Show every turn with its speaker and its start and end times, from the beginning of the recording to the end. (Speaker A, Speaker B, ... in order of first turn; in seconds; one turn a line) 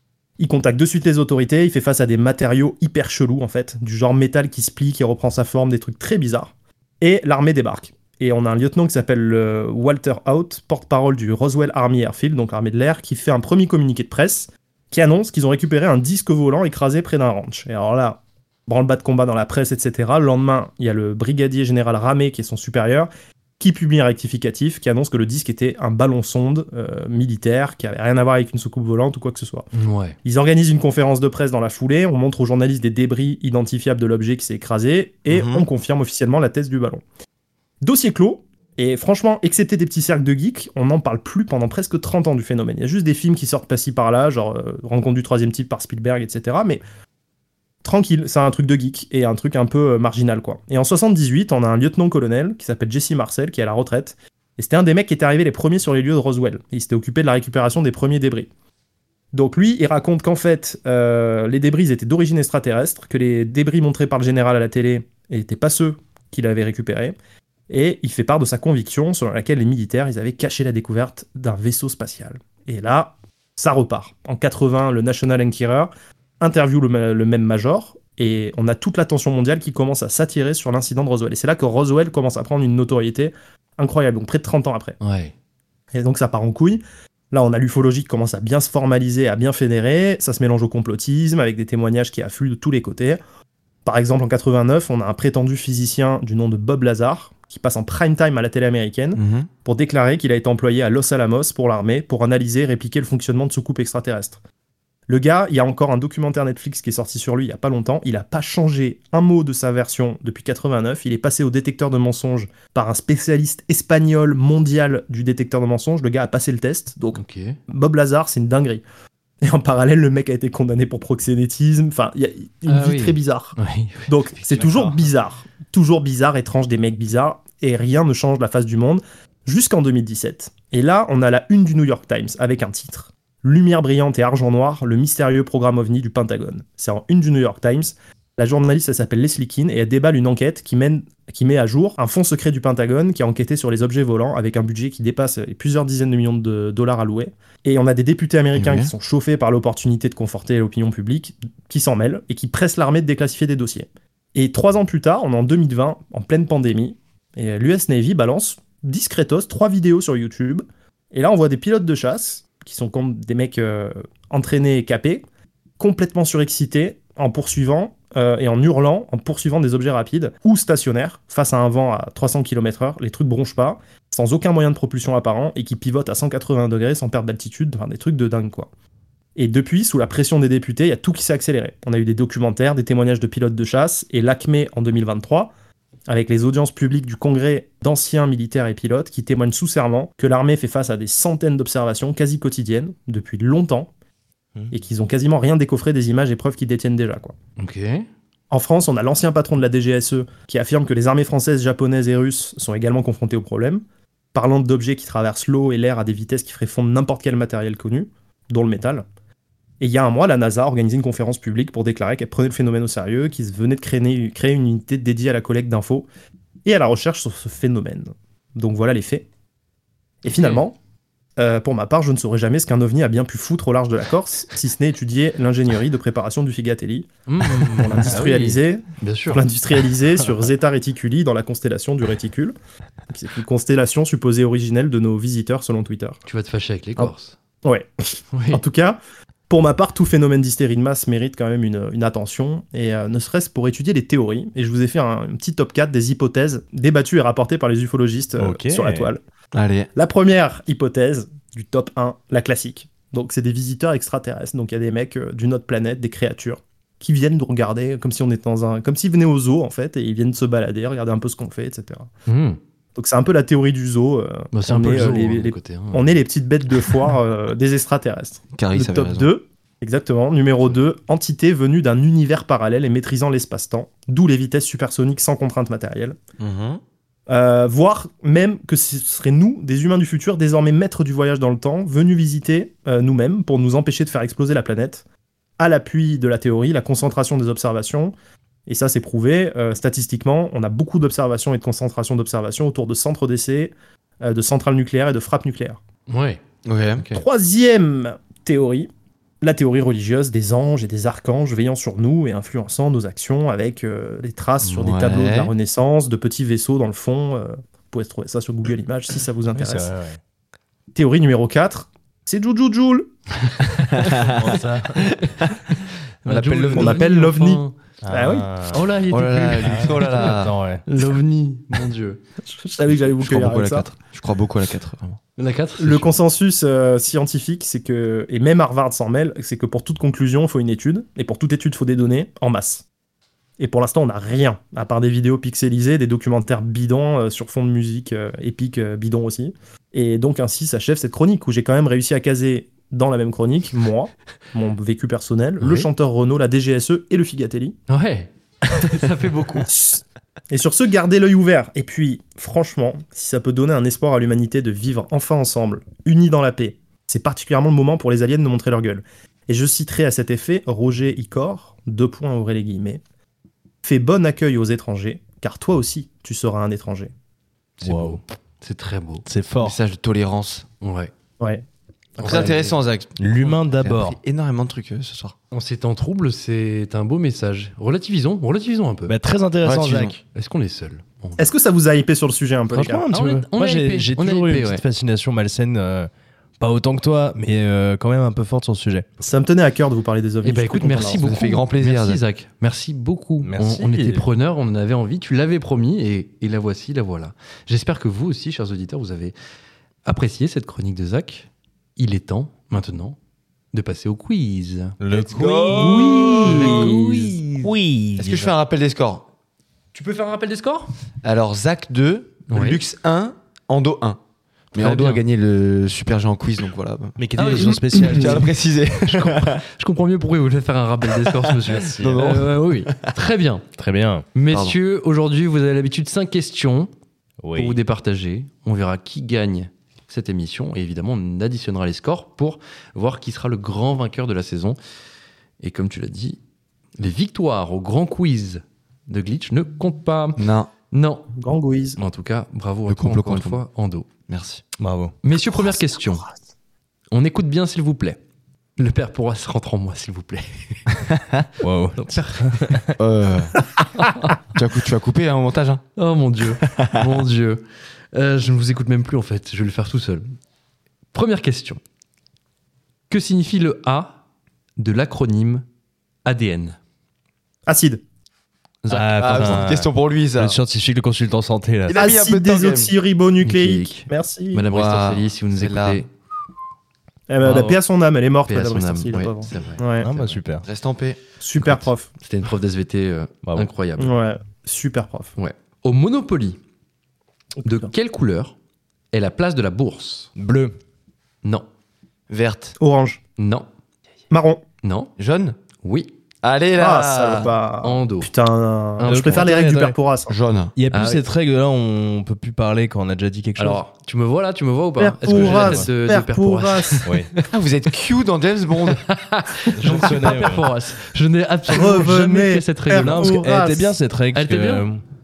Speaker A: 0.4-23.1
Speaker A: 23.6-29.7
Speaker B: 29.7-30.2
Speaker A: 30.2-37.0
Speaker C: 35.3-35.6
Speaker A: 37.8-46.8
Speaker A: 47.8-58.5
Speaker A: 59.3-67.1
Speaker A: 67.7-85.0
Speaker B: 85.0-85.3
Speaker A: 85.9-93.2
Speaker A: 93.8-104.4
Speaker C: 99.1-99.5
Speaker A: 105.1-118.8
Speaker B: 117.1-117.6
Speaker A: 119.4-165.2
Speaker B: 122.7-125.0
Speaker C: 148.5-148.9
Speaker A: 165.8-178.7
Speaker A: 179.3-185.5
Speaker A: 186.1-193.9
Speaker A: 194.7-197.3
Speaker B: 197.6-198.1
Speaker A: 198.5-203.8
Speaker A: 204.3-209.0
Speaker A: 209.8-216.1
Speaker A: 216.6-219.2
Speaker A: 220.2-220.8
Speaker B: 220.3-220.6
Speaker A: 221.4-232.5
Speaker B: 227.3-229.4
Speaker D: 228.1-228.3
Speaker A: 233.1-236.2
Speaker B: 236.2-237.3
Speaker A: 237.6-249.2
Speaker B: 238.3-238.6
Speaker D: 248.4-249.1
Speaker C: 249.5-249.9
Speaker A: 249.9-262.1
Speaker B: 262.3-262.6
Speaker A: 262.9-276.2
Speaker B: 264.5-266.2
Speaker C: 268.5-269.3
Speaker C: 276.4-276.8
Speaker A: 277.3-285.0
Speaker A: 285.6-288.1
Speaker A: 288.7-295.8
Speaker B: 296.1-296.4
Speaker C: 296.6-297.0
Speaker B: 297.0-297.2
Speaker A: 297.1-298.9
Speaker A: 299.4-309.9
Speaker C: 304.6-305.5
Speaker D: 309.5-310.2
Speaker A: 310.9-313.1
Speaker B: 313.6-314.1
Speaker D: 314.1-315.1
Speaker B: 316.2-317.7
Speaker C: 316.3-317.0
Speaker D: 316.3-316.8
Speaker A: 316.8-318.4
Speaker D: 318.0-318.9
Speaker B: 318.7-322.2
Speaker C: 319.1-320.5
Speaker D: 319.6-320.8
Speaker A: 322.4-323.9
Speaker C: 323.2-325.2
Speaker B: 325.4-326.1
Speaker A: 325.8-332.8
Speaker A: 333.6-347.8
Speaker B: 345.6-345.9
Speaker B: 347.9-349.7
Speaker A: 349.7-363.0
Speaker A: 363.8-367.1
Speaker B: 367.8-369.2
Speaker D: 367.8-368.2
Speaker D: 369.2-369.8
Speaker C: 369.6-370.6
Speaker B: 370.8-371.1
Speaker A: 372.2-372.6
Speaker B: 372.2-372.7
Speaker C: 372.2-375.3
Speaker D: 373.2-374.2
Speaker B: 375.5-379.1
Speaker D: 379.1-380.2
Speaker C: 379.6-380.2
Speaker B: 380.3-381.5
Speaker A: 381.4-383.0
Speaker D: 382.7-389.1
Speaker B: 383.1-384.8
Speaker A: 389.2-391.2
Speaker B: 390.4-399.3
Speaker C: 391.1-392.2
Speaker D: 393.4-394.2
Speaker B: 400.0-403.2
Speaker B: 403.7-407.7
Speaker D: 405.0-408.5
Speaker C: 405.1-407.0
Speaker C: 408.2-409.2
Speaker B: 409.9-410.9
Speaker C: 411.2-414.2
Speaker B: 412.5-412.8
Speaker C: 414.7-419.6
Speaker B: 414.8-415.2
Speaker D: 417.2-418.5
Speaker B: 417.4-418.4
Speaker B: 419.1-423.6
Speaker D: 421.6-422.2
Speaker C: 421.8-423.1
Speaker D: 423.8-424.2
Speaker B: 424.3-426.9
Speaker C: 424.5-424.8
Speaker D: 427.4-427.8
Speaker B: 427.5-434.8
Speaker B: 435.6-436.4
Speaker B: 437.0-441.3
Speaker C: 440.4-440.7
Speaker A: 441.4-442.0
Speaker B: 442.0-444.1
Speaker C: 442.9-443.6
Speaker C: 444.3-444.6
Speaker D: 444.8-445.1
Speaker B: 445.2-446.2
Speaker B: 447.1-448.2
Speaker B: 448.8-450.8
Speaker D: 451.6-452.9
Speaker B: 452.0-452.6
Speaker C: 453.0-453.6
Speaker B: 454.0-454.4
Speaker C: 454.5-455.8
Speaker B: 455.9-460.3
Speaker B: 461.1-461.8
Speaker B: 463.1-464.2
Speaker B: 464.8-465.6
Speaker B: 466.2-466.8
Speaker A: 467.7-468.0
Speaker B: 468.8-469.7
Speaker D: 468.9-472.0
Speaker C: 469.2-470.6
Speaker C: 471.9-472.9
Speaker A: 471.9-474.6
Speaker B: 473.4-476.1
Speaker C: 474.7-476.0
Speaker A: 477.3-480.1
Speaker D: 477.4-477.8
Speaker B: 478.4-480.4
Speaker D: 480.0-480.7
Speaker C: 480.6-481.2
Speaker A: 481.4-482.1
Speaker B: 481.6-484.1
Speaker D: 483.4-483.7
Speaker A: 484.0-485.3
Speaker B: 485.4-486.6
Speaker A: 487.6-487.9
Speaker B: 487.6-488.5
Speaker B: 489.1-490.3
Speaker D: 490.4-490.8
Speaker C: 492.3-492.8
Speaker A: 492.8-493.2
Speaker B: 493.4-493.7
Speaker A: 494.3-494.6
Speaker B: 494.8-495.1
Speaker C: 495.2-495.6
Speaker B: 495.8-496.1
Speaker C: 496.4-497.5
Speaker A: 496.8-500.4
Speaker B: 497.8-498.3
Speaker B: 499.0-499.5
Speaker D: 499.0-500.0
Speaker C: 500.3-500.7
Speaker D: 500.8-503.8
Speaker B: 500.9-501.2
Speaker B: 503.6-507.5
Speaker A: 505.0-507.1
Speaker D: 505.3-505.9
Speaker C: 507.5-509.0
Speaker B: 508.9-513.5
Speaker D: 509.7-510.7
Speaker A: 511.7-513.9
Speaker D: 512.9-515.0
Speaker B: 514.3-514.9